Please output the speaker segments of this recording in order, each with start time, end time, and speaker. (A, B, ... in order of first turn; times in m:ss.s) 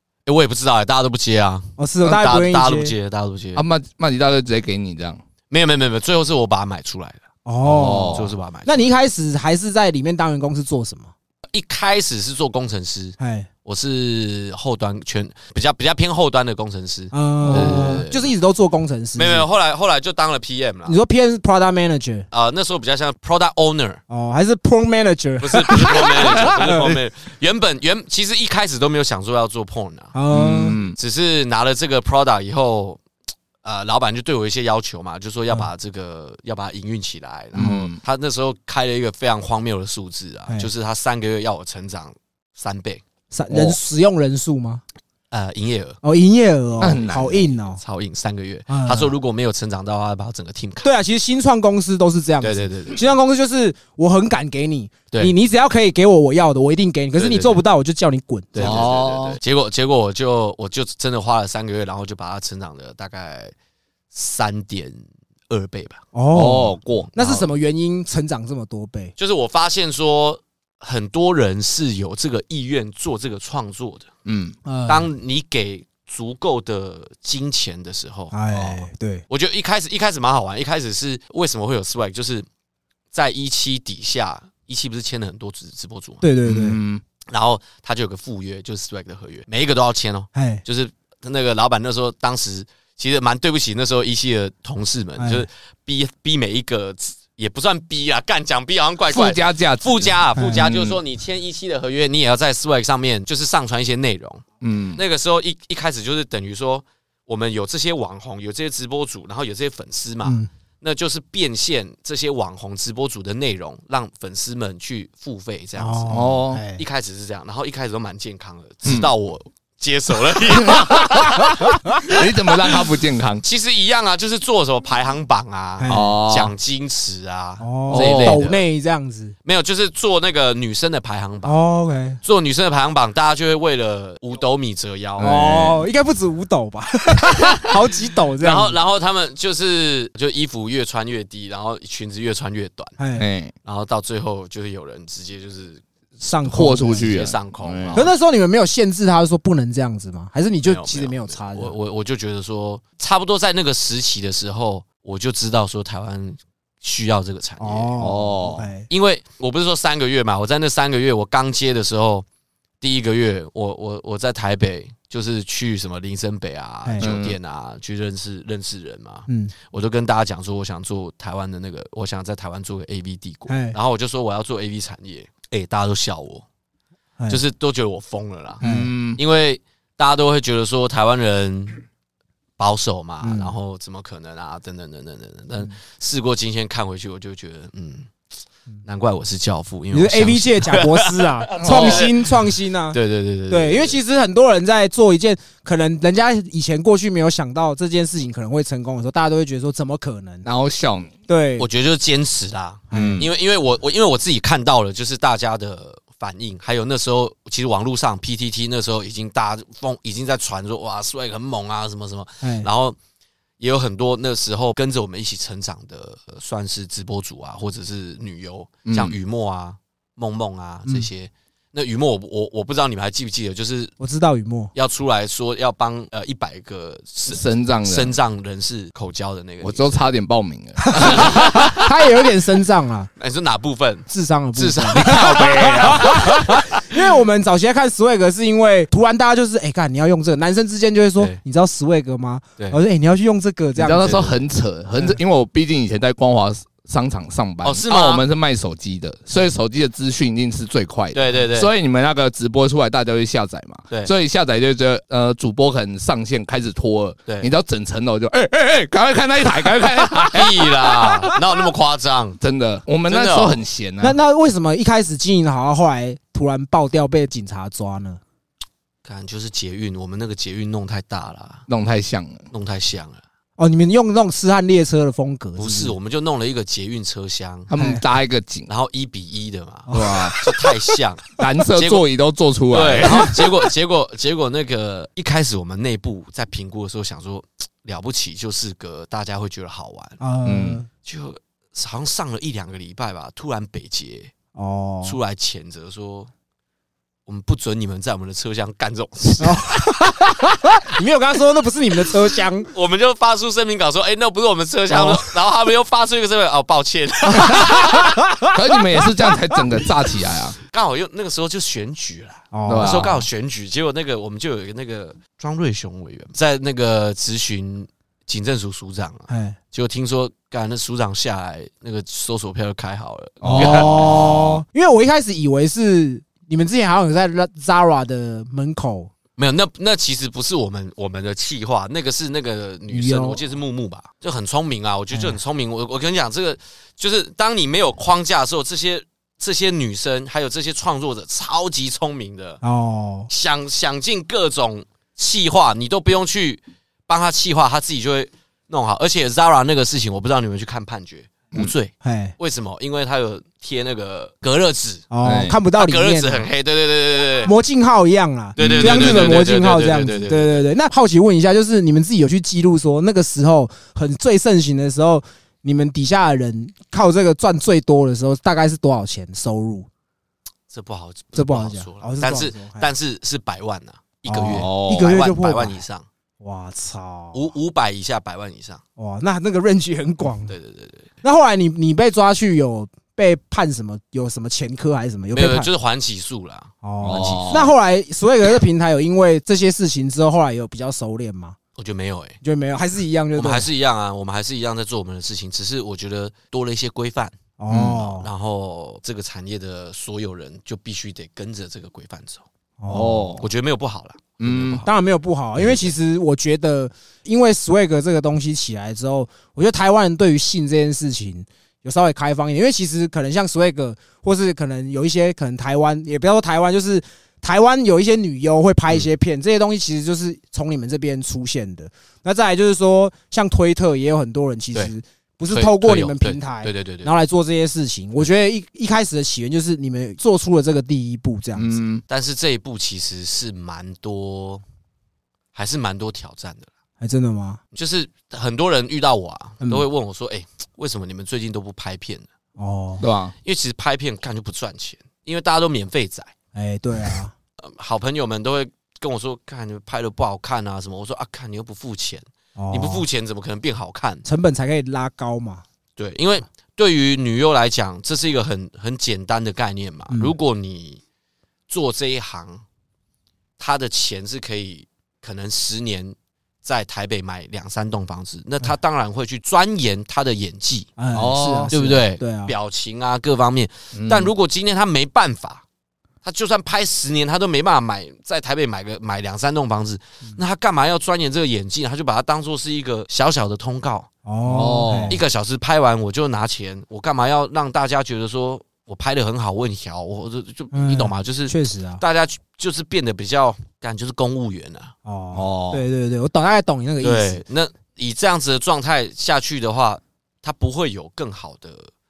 0:00.2-0:03.6 A
0:01.8-0:02.9 B
0:03.6-0:05.2 C
0:05.5-0:07.2 A
0:07.4-0:11.1 B
0:07.6-0:08.3 C
0:07.8-0:08.9 A
0:11.5-0:18.3 A
0:13.2-0:13.5 B
0:17.1-0:19.5 B
0:17.4-0:18.0 C
0:19.2-0:21.0 A
0:20.9-0:22.3 B
0:22.3-0:24.0 A
0:24.1-0:26.9 B
0:25.4-0:30.1 A
0:30.1-0:30.8 B
0:30.3-0:31.0 C
0:30.8-0:33.0 A
0:33.6-0:43.7 A
0:37.6-0:38.0 C
0:37.6-0:37.8 B
0:43.3-0:44.8 B
0:45.3-0:46.0 A
0:46.0-0:47.8 B
0:46.8-0:50.9 A
0:46.8-0:47.3 C
0:48.7-0:49.1 B
0:50.8-0:58.8 B
0:52.4-0:53.0 A
0:57.2-0:57.6 A
0:58.5-1:03.5 A
0:58.6-0:59.4 C
1:04.1-1:06.0 A
1:06.1-1:09.1 B
1:06.3-1:07.1 C
1:07.1-1:07.5 A
1:09.2-1:14.1 A
1:14.2-1:14.6 C
1:14.6-1:15.0 B
1:14.9-1:22.4 A
1:18.3-1:19.2 B
1:23.1-1:26.2 A
1:26.2-1:26.8 B
1:26.4-1:27.0 C
1:27.3-1:44.4 A
1:30.3-1:30.6 B
1:35.2-1:35.5 B
1:39.1-1:41.0 C
1:40.3-1:40.6 B
1:44.6-1:45.0 C
1:45.0-2:01.4 A
1:55.8-1:56.8 B
1:56.1-1:56.6 C
2:00.5-2:03.4 C
2:01.4-2:01.9 B
2:03.4-2:08.6 A
2:05.8-2:06.1 B
2:05.9-2:06.5 C
2:07.6-2:09.3 B
2:07.9-2:08.4 C
2:09.4-2:11.6 A
2:11.4-2:12.2 B
2:12.2-2:15.3 A
2:15.2-2:15.8 C
2:15.2-2:18.8 B
2:18.4-2:23.0 A
2:23.0-2:23.2 B
2:23.2-2:23.5 C
2:23.6-2:25.8 A
2:26.2-2:27.1 B
2:26.4-2:28.1 C
2:26.9-2:28.1 A
2:27.9-2:31.7 B
2:30.6-2:37.9 A
2:37.6-2:38.9 B
2:38.0-2:38.7 C
2:38.9-2:42.2 A
2:42.8-2:56.4 A
2:46.8-2:47.1 B
2:47.0-2:47.4 C
2:49.3-2:49.5 B
2:53.5-2:53.8 B
2:57.3-3:01.8 A
2:58.6-2:58.9 B
2:58.6-2:59.2 C
3:02.6-3:08.1 A
3:03.2-3:03.5 B
3:08.8-3:12.3 A
3:09.9-3:13.0 B
3:11.6-3:12.1 C
3:12.9-3:14.0 A
3:13.5-3:20.4 B
3:20.4-3:21.1 C
3:21.3-3:21.7 B
3:21.6-3:33.0 A
3:22.9-3:23.2 B
3:22.9-3:23.3 C
3:32.4-3:32.7 B
3:33.6-3:44.0 A
3:38.8-3:39.1 C
3:44.0-3:44.7 B
3:44.7-3:50.1 A
3:47.3-3:48.1 C
3:49.6-3:51.8 C
3:50.8-3:53.1 B
3:53.2-3:56.2 A
3:54.1-4:04.2 B
3:54.9-3:56.6 C
4:03.8-4:21.4 C
4:03.9-4:04.4 A
4:07.6-4:08.2 A
4:11.1-4:11.7 A
4:17.2-4:17.5 A
4:20.3-4:22.4 A
4:22.4-4:24.2 C
4:23.1-4:23.6 A
4:24.0-4:28.2 B
4:29.0-4:31.6 A
4:31.7-4:32.4 C
4:32.5-4:33.2 A
4:33.6-4:35.9 B
4:35.6-4:37.7 A
4:37.7-4:38.7 C
4:37.7-4:38.0 B
4:38.7-4:42.0 A
4:39.9-4:40.4 B
4:39.9-4:40.4 C
4:41.4-4:43.6 C
4:42.7-4:50.2 A
4:50.2-4:50.9 B
4:50.4-4:50.8 C
4:51.0-4:54.3 A
4:54.5-4:55.2 B
4:55.0-4:56.3 A
4:57.3-4:59.9 A
4:59.4-5:02.7 B
5:02.7-5:08.1 A
5:04.9-5:05.3 B
5:07.3-5:07.7 C
5:07.3-5:08.5 B
5:08.5-5:10.6 C
5:10.7-5:24.4 A
5:12.5-5:13.1 B
5:12.6-5:13.2 C
5:19.3-5:19.6 B
5:23.4-5:24.6 C
5:23.5-5:29.1 B
5:29.4-5:42.6 A
5:32.9-5:33.4 B
5:35.1-5:35.4 B
5:42.6-5:43.3 B
5:43.3-5:55.1 A
5:52.0-5:52.3 B
5:55.1-5:56.4 B
5:55.2-5:55.6 C
5:55.8-5:57.5 A
5:57.4-6:09.9 B
5:58.6-6:00.6 A
5:58.6-5:59.4 C
6:10.7-6:16.0 A
6:11.3-6:12.9 B
6:14.3-6:15.8 B
6:14.5-6:15.1 C
6:16.4-6:17.4 B
6:17.3-6:18.8 A
6:19.0-6:20.5 B
6:20.5-6:21.1 A
6:21.2-6:25.7 B
6:25.3-6:27.7 A
6:26.8-6:31.6 B
6:27.0-6:27.7 C
6:31.8-6:32.4 A
6:32.4-6:33.7 B
6:33.4-6:37.3 A
6:37.6-6:38.3 B
6:37.7-6:38.0 C
6:37.9-6:42.4 A
6:42.8-6:43.4 B
6:42.9-6:43.4 C
6:43.4-6:44.9 A
6:44.4-6:44.8 C
6:44.8-7:11.7 B
6:45.6-6:45.9 A
7:05.5-7:07.1 A
7:11.6-7:12.0 C
7:12.1-7:14.6 A
7:15.5-7:16.7 A
7:17.0-7:17.6 B
7:17.7-7:22.3 A
7:22.6-7:23.0 B
7:23.0-7:23.3 C
7:23.4-7:26.3 A
7:26.5-7:27.3 B
7:27.6-7:34.2 A
7:32.6-7:33.0 B
7:34.2-7:35.6 B
7:36.0-7:41.0 A
7:40.1-7:40.3 B
7:41.7-7:42.6 A
7:43.6-7:50.9 A
7:51.0-7:52.5 B
7:51.1-7:51.7 C
7:51.7-7:55.6 A
7:53.9-7:54.3 C
7:56.2-8:04.1 A
8:04.2-8:05.2 B
8:04.4-8:05.2 C
8:05.1-8:14.9 A
8:10.7-8:12.0 B
8:15.0-8:17.4 B
8:15.3-8:15.8 C
8:17.0-8:21.9 A